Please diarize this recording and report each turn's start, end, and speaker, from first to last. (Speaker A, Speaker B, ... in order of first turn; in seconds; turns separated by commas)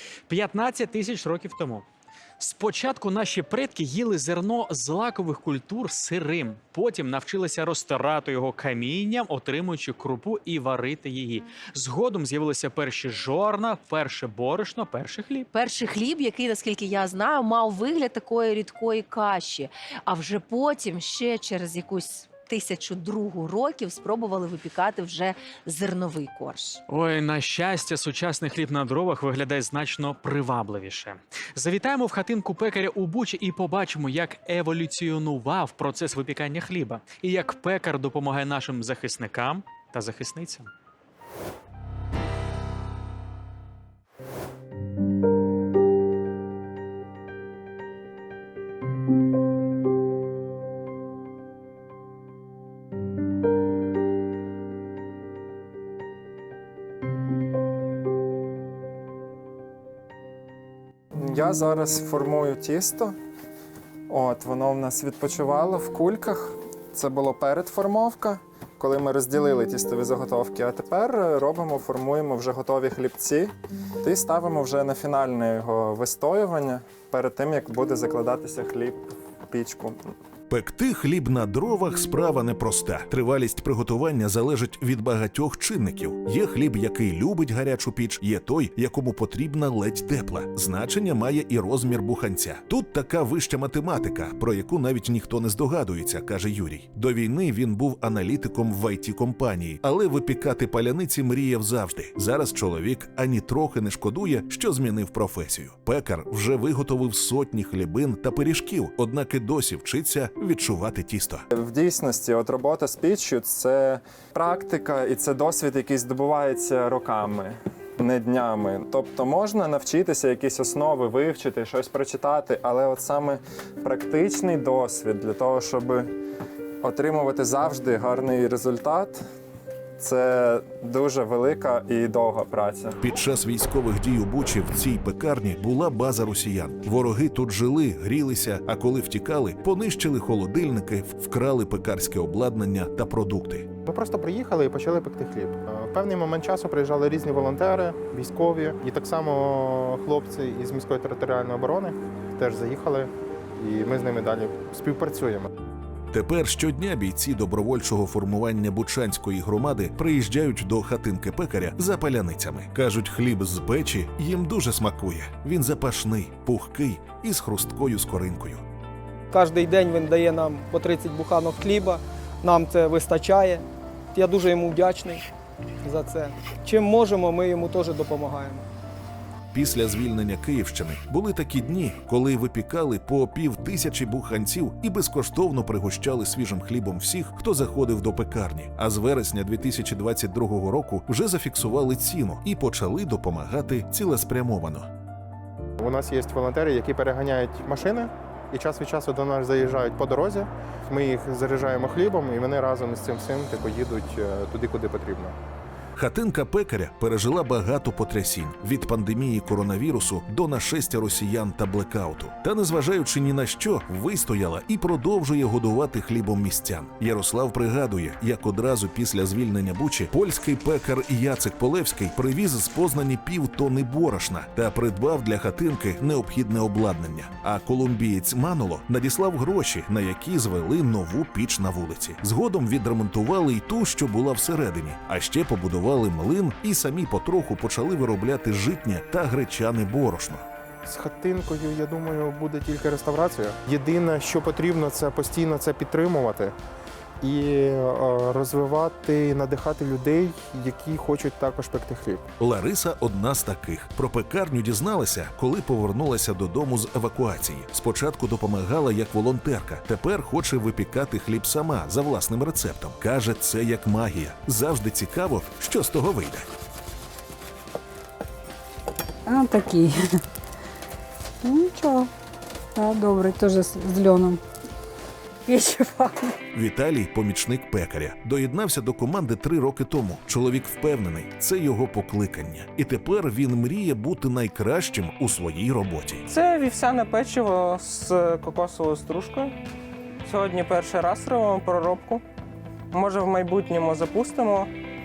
Speaker A: 0.3-1.9, Speaker A: 2.4-15.5, Speaker B: 15.5-26.8, Speaker A: 26.9-40.7, Speaker C: 61.1-63.1, Speaker C: 64.1-73.5, Speaker C: 74.0-80.0, Speaker D: 80.5-111.5, Speaker C: 111.5-126.1, Speaker C: 126.8-129.2, Speaker C: 130.0-133.0, Speaker D: 133.0-143.7, Speaker E: 143.8-155.5, Speaker D: 156.1-168.6, Speaker F: 169.3-175.2, Speaker F: 175.8-178.7, Speaker D: 179.5-194.9, Speaker E: 195.8-205.3, Speaker D: 205.9-240.4, Speaker E: 240.8-246.5, Speaker E: 247.2-252.2, Speaker D: 252.4-266.5, Speaker G: 269.2-270.2, Speaker G: 271.4-272.1, Speaker G: 272.8-274.4, Speaker G: 275.5-276.4, Speaker D: 276.5-286.2, Speaker H: 286.3-289.6, Speaker H: 290.2-292.2, Speaker H: 292.9-294.7